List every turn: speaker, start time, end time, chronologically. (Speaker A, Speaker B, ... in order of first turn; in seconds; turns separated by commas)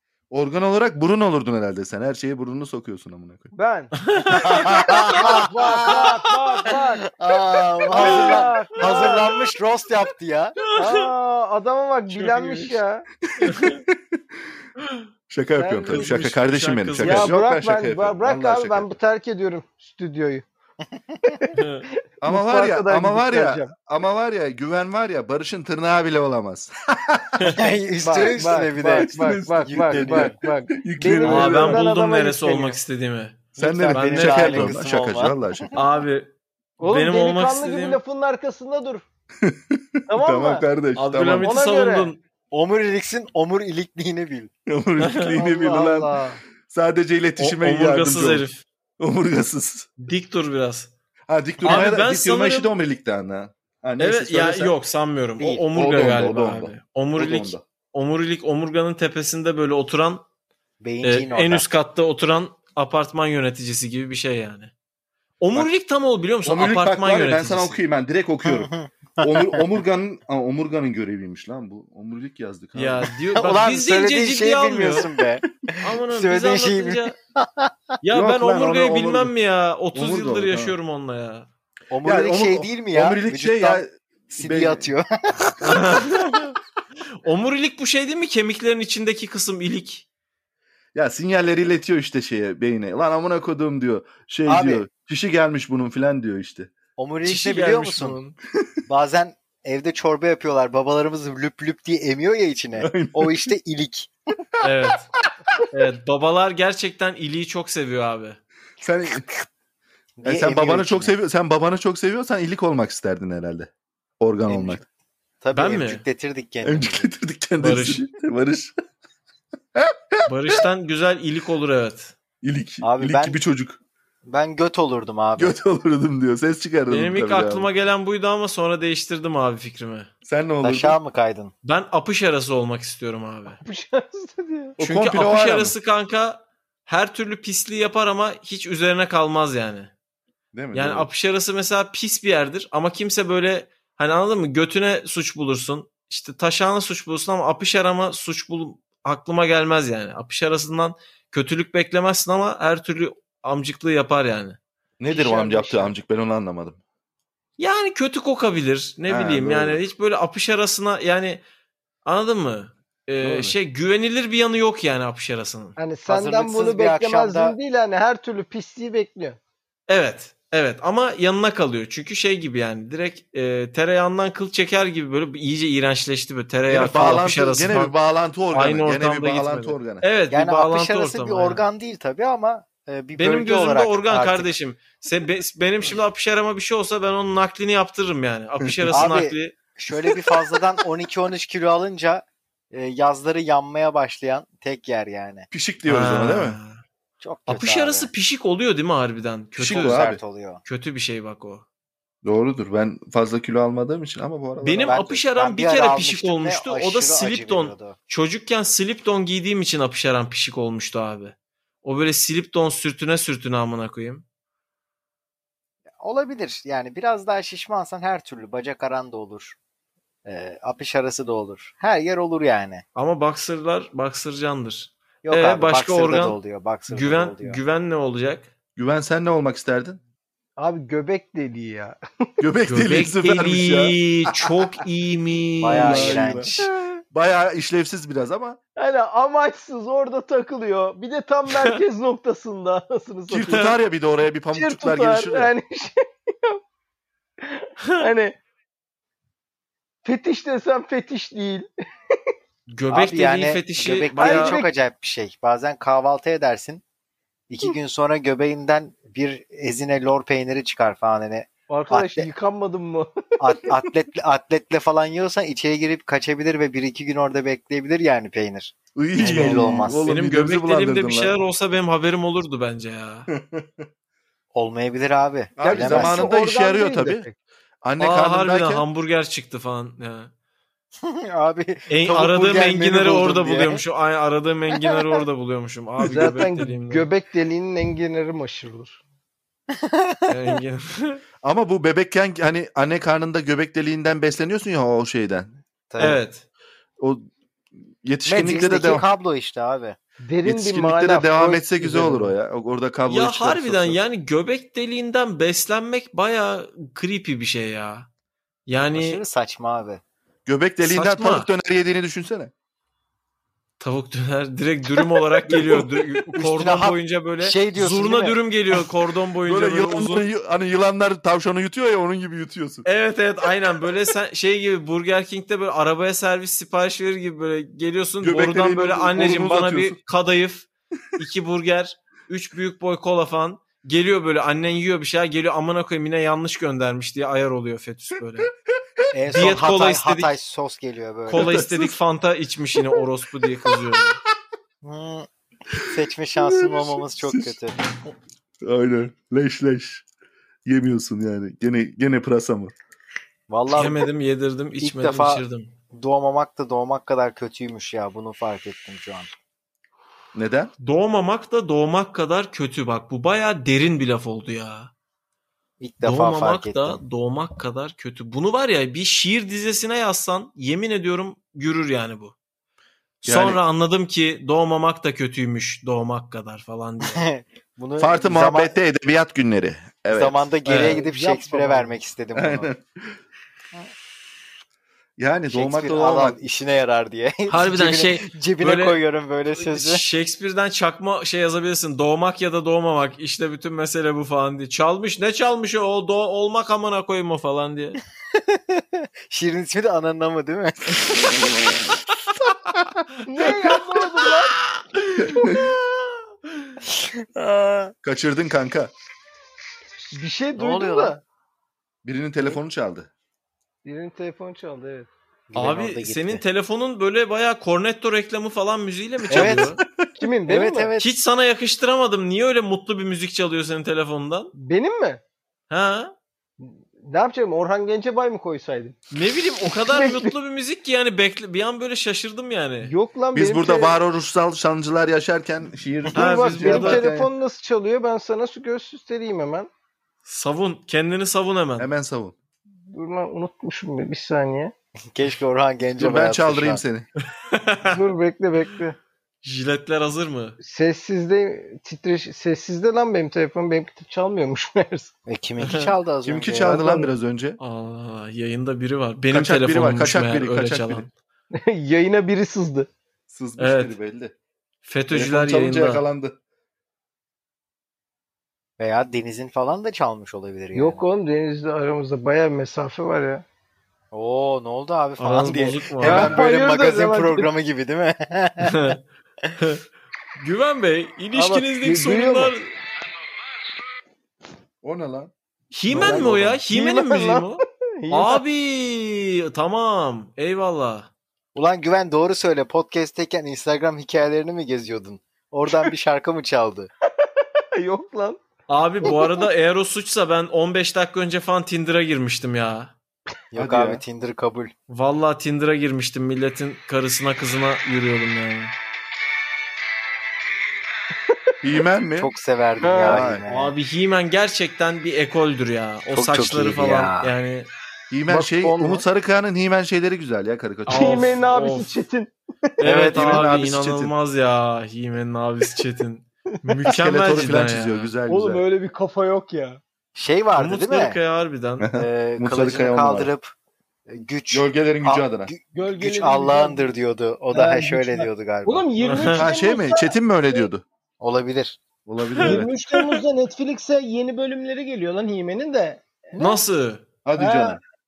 Speaker A: 0.3-3.5, Speaker B: 3.5-3.9, Speaker C: 4.0-5.4, Speaker D: 4.3-10.6, Speaker B: 5.1-7.1, Speaker B: 7.9-9.3, Speaker C: 8.0-9.4, Speaker B: 10.7-13.1, Speaker C: 10.8-11.1, Speaker C: 12.1-12.8, Speaker A: 13.3-13.9, Speaker C: 13.4-13.8, Speaker C: 14.8-15.1, Speaker A: 15.3-19.0, Speaker B: 15.6-16.1, Speaker C: 15.9-17.3, Speaker B: 17.0-20.5, Speaker B: 21.3-21.6, Speaker C: 21.5-21.9, Speaker A: 22.2-27.4, Speaker B: 22.2-23.7, Speaker C: 27.4-27.7, Speaker D: 27.6-30.4, Speaker B: 28.0-32.8, Speaker A: 28.8-31.9, Speaker C: 31.2-34.8, Speaker A: 33.6-35.7, Speaker D: 34.0-35.8, Speaker C: 35.7-38.0, Speaker B: 36.8-39.0, Speaker A: 39.4-41.5, Speaker B: 40.1-40.7, Speaker C: 41.0-42.2, Speaker B: 41.4-42.1, Speaker D: 42.5-44.5, Speaker A: 44.7-46.1, Speaker C: 45.0-45.4, Speaker B: 45.4-46.4, Speaker A: 46.7-48.5, Speaker C: 47.4-48.6, Speaker A: 49.0-49.9, Speaker C: 50.0-50.9, Speaker A: 51.3-54.8, Speaker C: 51.6-52.7, Speaker C: 54.0-60.2, Speaker D: 55.4-55.7, Speaker A: 55.7-57.6, Speaker D: 60.8-61.7, Speaker C: 61.0-64.7, Speaker C: 65.4-67.8, Speaker A: 66.5-73.1, Speaker D: 68.4-69.6, Speaker C: 72.8-75.1, Speaker D: 73.3-77.7, Speaker C: 75.8-77.2, Speaker C: 78.0-81.5, Speaker A: 78.1-79.3, Speaker A: 79.9-80.8, Speaker D: 81.9-86.0, Speaker A: 82.0-84.9, Speaker C: 85.6-86.6, Speaker C: 87.2-90.1, Speaker A: 90.9-96.7, Speaker D: 94.5-94.9, Speaker D: 97.0-98.2, Speaker C: 97.2-98.3, Speaker D: 98.9-104.1, Speaker A: 102.8-103.5, Speaker C: 104.6-105.1, Speaker C: 105.7-108.4, Speaker A: 108.8-109.3, Speaker D: 110.2-111.1, Speaker A: 110.2-114.8, Speaker D: 114.5-114.8, Speaker D: 115.4-117.1, Speaker C: 115.5-116.0, Speaker A: 116.6-118.7, Speaker C: 117.6-118.0, Speaker A: 119.8-120.6, Speaker C: 120.3-122.2, Speaker A: 122.4-123.8, Speaker D: 122.8-123.4, Speaker D: 124.3-125.6, Speaker A: 125.4-127.7, Speaker C: 126.9-130.1, Speaker A: 130.2-131.0, Speaker D: 130.6-131.5, Speaker C: 131.6-133.6, Speaker B: 133.5-134.8, Speaker A: 134.8-135.7, Speaker C: 134.8-139.9, Speaker A: 140.5-141.1, Speaker C: 140.7-154.6, Speaker A: 155.0-156.8, Speaker B: 155.1-155.9, Speaker C: 157.6-161.4, Speaker A: 159.1-159.8, Speaker C: 162.1-165.8, Speaker A: 163.2-163.6, Speaker B: 165.8-169.4, Speaker D: 166.1-167.6, Speaker C: 169.9-177.9, Speaker A: 176.7-180.1, Speaker D: 176.9-177.3, Speaker C: 178.5-181.6, Speaker D: 180.3-184.5, Speaker C: 183.2-189.6, Speaker A: 188.6-189.1, Speaker D: 188.9-195.5, Speaker A: 195.5-196.6, Speaker C: 195.9-196.8, Speaker D: 197.2-198.1, Speaker C: 197.5-200.0, Speaker A: 199.6-200.2, Speaker D: 199.6-200.6, Speaker C: 200.7-201.7, Speaker A: 202.2-205.1, Speaker C: 204.6-214.2, Speaker D: 204.8-208.0, Speaker D: 216.0-219.6, Speaker D: 220.3-222.8, Speaker C: 222.9-226.4, Speaker D: 225.2-227.6, Speaker C: 226.9-228.5, Speaker A: 228.8-230.0, Speaker B: 230.6-232.0, Speaker A: 232.4-234.0, Speaker C: 232.7-236.3, Speaker D: 235.6-236.7, Speaker A: 235.8-236.5, Speaker A: 237.1-238.6, Speaker B: 238.8-243.8, Speaker C: 241.5-241.8, Speaker A: 243.3-245.5, Speaker B: 244.6-246.6, Speaker B: 247.4-248.4, Speaker B: 250.0-251.7, Speaker C: 252.7-254.6, Speaker D: 252.9-256.8, Speaker B: 254.2-254.7, Speaker D: 257.5-262.3, Speaker B: 261.7-263.8, Speaker D: 263.4-270.1, Speaker A: 269.0-271.4, Speaker C: 270.1-273.3, Speaker A: 273.3-273.9, Speaker D: 274.5-276.3, Speaker A: 275.6-277.3, Speaker B: 275.6-277.4, Speaker A: 277.8-278.9, Speaker C: 278.0-280.3, Speaker D: 281.0-283.8, Speaker C: 281.9-287.1, Speaker B: 286.0-289.0, Speaker A: 286.1-286.4, Speaker D: 289.7-290.3, Speaker C: 290.3-291.2, Speaker A: 291.4-295.6, Speaker D: 295.9-296.2, Speaker C: 296.0-296.4, Speaker A: 297.0-297.2, Speaker A: 298.0-299.1, Speaker D: 298.3-300.0, Speaker B: 300.2-302.4, Speaker A: 300.4-304.0, Speaker C: 303.1-308.1, Speaker C: 308.7-309.2, Speaker D: 308.9-310.0, Speaker A: 310.5-312.5, Speaker C: 310.8-311.5, Speaker C: 313.8-320.2, Speaker D: 316.4-318.4, Speaker A: 319.5-322.9, Speaker C: 322.9-338.5, Speaker A: 328.2-330.0, Speaker D: 339.1-341.6, Speaker C: 339.3-340.3, Speaker C: 341.3-344.2, Speaker A: 341.4-341.9, Speaker D: 344.8-347.8, Speaker A: 346.4-347.6, Speaker A: 348.6-350.1, Speaker A: 350.7-352.7, Speaker D: 353.5-354.1, Speaker C: 353.7-355.7, Speaker D: 354.8-359.3, Speaker A: 360.4-360.7, Speaker C: 360.8-364.9, Speaker D: 365.8-367.0, Speaker C: 366.0-372.4, Speaker C: 373.2-377.3, Speaker A: 373.2-373.6, Speaker D: 377.0-378.7, Speaker A: 378.0-380.4, Speaker D: 380.1-382.7, Speaker C: 380.7-381.0, Speaker B: 380.8-381.9, Speaker A: 382.4-383.1, Speaker A: 385.2-386.4, Speaker D: 385.5-390.0, Speaker C: 387.5-389.0, Speaker C: 389.6-398.0, Speaker D: 398.4-401.9, Speaker B: 403.2-404.6, Speaker A: 405.2-405.8, Speaker D: 406.8-407.9, Speaker A: 408.0-408.9, Speaker B: 410.1-411.2, Speaker D: 410.6-411.1, Speaker A: 412.0-413.1, Speaker B: 413.9-415.1, Speaker D: 415.5-416.4, Speaker C: 415.6-419.8, Speaker A: 419.3-420.1, Speaker D: 419.3-419.7, Speaker B: 420.2-420.9, Speaker D: 420.5-421.1, Speaker C: 421.0-424.5, Speaker B: 424.6-425.2, Speaker C: 425.7-426.1, Speaker B: 426.6-429.0, Speaker C: 429.1-432.9, Speaker B: 429.7-430.3, Speaker B: 432.8-434.0, Speaker A: 433.3-437.3, Speaker C: 436.1-437.0, Speaker B: 436.1-439.7, Speaker C: 440.2-441.9, Speaker A: 441.8-442.4, Speaker B: 442.9-444.7, Speaker D: 445.1-446.8, Speaker A: 446.0-447.1, Speaker C: 447.4-448.0, Speaker B: 447.9-449.0, Speaker C: 449.4-450.6, Speaker B: 450.6-455.1, Speaker D: 455.3-456.8, Speaker C: 455.6-455.9, Speaker A: 456.2-457.6, Speaker B: 456.7-457.1, Speaker C: 457.6-461.1, Speaker A: 459.3-461.1, Speaker B: 461.6-462.9, Speaker A: 463.3-464.3, Speaker C: 463.6-463.9, Speaker C: 464.8-466.0, Speaker A: 465.1-466.4, Speaker D: 468.8-471.0, Speaker B: 470.8-473.4, Speaker D: 474.1-478.8, Speaker C: 475.2-476.4, Speaker B: 476.0-477.5, Speaker C: 478.6-479.0, Speaker C: 479.6-479.8, Speaker C: 480.4-482.7, Speaker B: 481.3-482.5, Speaker A: 484.8-485.3, Speaker C: 485.7-491.1, Speaker A: 485.9-486.6, Speaker B: 485.9-488.4, Speaker D: 491.6-496.9, Speaker B: 497.8-498.4, Speaker C: 498.7-502.9, Speaker B: 499.0-499.5, Speaker D: 503.5-504.7, Speaker A: 503.6-504.0, Speaker C: 504.9-508.7, Speaker A: 511.6-512.3, Speaker D: 512.2-513.7, Speaker B: 512.8-513.3, Speaker A: 513.1-513.4, Speaker C: 513.5-517.7, Speaker D: 516.1-517.3, Speaker A: 518.1-521.3, Speaker B: 518.3-519.0, Speaker C: 520.9-521.9, Speaker B: 520.9-522.8, Speaker C: 522.8-528.1, Speaker D: 522.9-523.4, Speaker A: 522.9-524.1, Speaker A: 526.9-528.7, Speaker B: 528.3-529.8, Speaker D: 530.2-531.2, Speaker C: 530.6-531.9, Speaker A: 531.8-533.3, Speaker D: 532.0-533.5, Speaker D: 534.1-538.9, Speaker A: 534.5-535.5, Speaker B: 535.7-536.9, Speaker B: 537.5-540.7, Speaker C: 539.0-539.4, Speaker A: 539.3-540.8, Speaker D: 541.2-541.8, Speaker A: 542.1-542.7, Speaker C: 542.4-543.2, Speaker B: 542.4-546.6, Speaker C: 546.4-547.0, Speaker A: 547.2-547.8, Speaker B: 547.4-547.8